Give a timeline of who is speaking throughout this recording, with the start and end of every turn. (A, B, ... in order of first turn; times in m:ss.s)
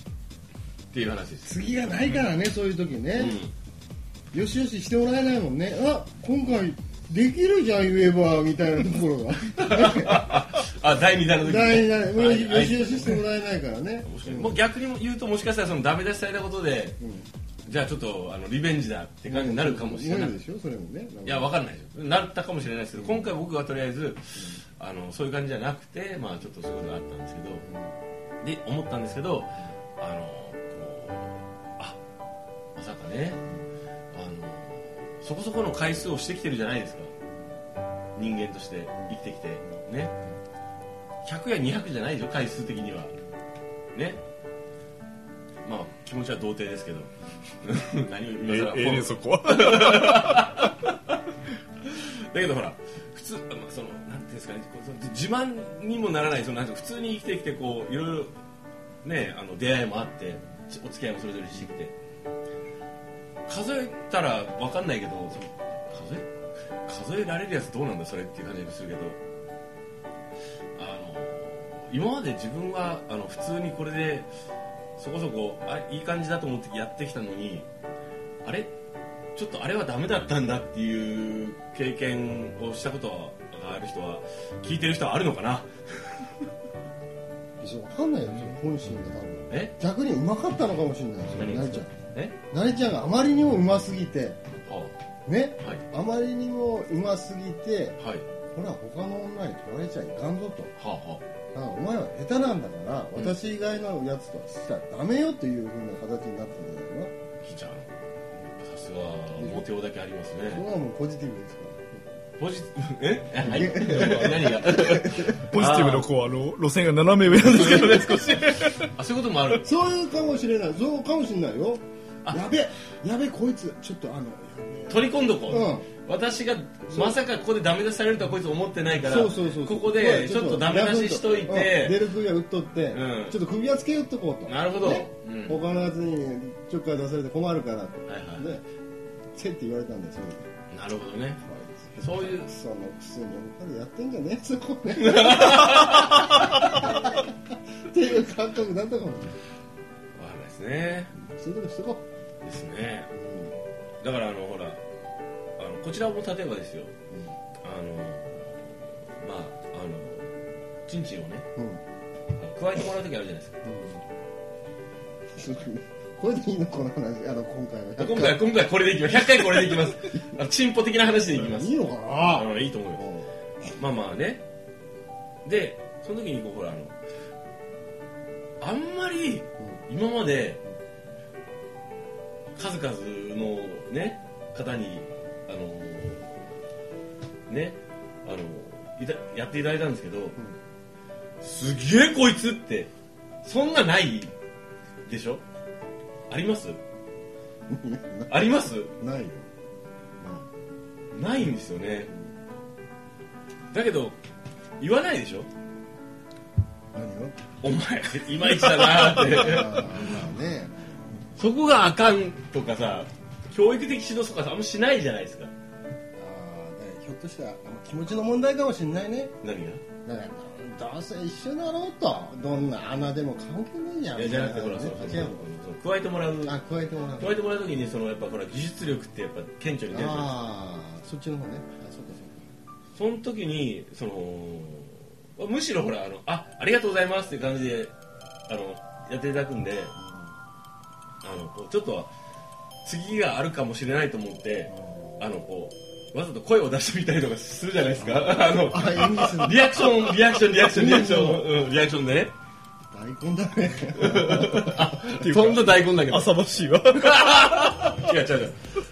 0:00.9-0:01.6 A
0:01.4-0:03.4 B
0:03.1-0:03.5 A
0:04.3-0:10.4 B
0:09.6-0:13.2 A
0:11.4-0:14.6 B
0:14.0-0:17.0 A
0:17.0-0:17.3 B
0:17.6-0:20.4 A
0:19.3-0:21.5 B
0:21.2-0:27.6 A
0:22.9-0:23.3 B
0:27.6-0:27.9 B
0:28.4-0:32.0 A
0:32.7-0:33.4 A
0:34.1-0:37.1 A
0:38.1-0:40.1 A
0:41.2-0:43.1 A
0:43.9-0:44.2 A
0:45.6-0:47.1 A
0:47.6-0:51.0 A
0:48.4-0:50.7 C
0:51.8-0:58.3 A
0:59.0-1:01.9 A
1:03.5-1:06.3 A
1:06.8-1:09.2 A
1:10.8-1:14.3 A
1:15.0-1:17.7 A
1:18.4-1:18.7 A
1:19.3-1:26.3 A
1:27.6-1:32.0 B
1:31.3-1:32.4 A
1:32.5-1:34.4 B
1:34.7-1:34.9 A
1:35.2-1:38.0 B
1:38.0-1:38.2 A
1:38.5-1:40.7 B
1:40.8-1:41.2 A
1:41.5-1:47.1 B
1:47.4-1:47.9 A
1:48.6-1:50.6 A
1:49.4-1:49.6 B
1:50.5-1:52.2 B
1:52.4-1:56.1 A
1:53.4-1:55.5 B
1:53.4-1:54.5 C
1:55.3-1:58.9 C
1:57.4-1:59.7 A
1:59.6-2:05.8 B
2:04.9-2:12.0 A
2:09.0-2:18.6 B
2:12.9-2:13.4 A
2:14.4-2:15.6 A
2:18.1-2:18.5 A
2:19.3-2:20.5 B
2:20.7-2:21.4 A
2:21.4-2:27.3 B
2:22.0-2:22.5 A
2:25.0-2:26.6 A
2:27.9-2:29.4 B
2:30.1-2:31.1 A
2:31.2-2:32.0 B
2:32.4-2:33.1 A
2:33.1-2:33.5 B
2:34.0-2:34.8 A
2:35.6-2:36.9 A
2:37.6-2:41.4 A
2:41.6-2:41.8 B
2:42.4-2:43.6 A
2:43.6-2:44.0 B
2:45.4-2:48.4 B
2:48.0-2:51.8 A
2:49.4-2:49.9 B
2:51.3-2:53.3 B
2:52.3-2:53.0 A
2:53.7-2:54.4 A
2:55.4-2:57.0 A
2:58.6-3:00.6 A
3:02.6-3:06.4 A
3:07.5-3:10.4 A
3:11.4-3:12.9 A
3:13.4-3:14.3 A
3:15.0-3:15.4 A
3:16.3-3:16.8 A
3:17.7-3:19.5 B
3:18.3-3:18.9 A
3:20.2-3:20.5 B
3:21.1-3:22.1 A
3:23.7-3:24.2 A
3:24.8-3:25.5 A
3:26.9-3:27.4 B
3:27.6-3:29.9 A
3:28.8-3:29.6 C
3:29.0-3:31.0 B
3:31.4-3:35.5 A
3:36.2-3:39.3 B
3:39.4-3:39.8 A
3:40.0-3:45.4 B
3:44.1-3:46.6 A
3:46.4-3:47.4 B
3:47.2-3:50.4 A
3:49.9-3:52.5 B
3:52.9-3:57.9 A
3:58.5-3:59.9 A
4:00.0-4:00.3 B
4:01.2-4:02.1 A
4:02.8-4:12.3 A
4:04.7-4:05.0 B
4:08.0-4:11.5 B
4:12.9-4:14.9 B
4:13.9-4:18.6 A
4:15.0-4:18.1 C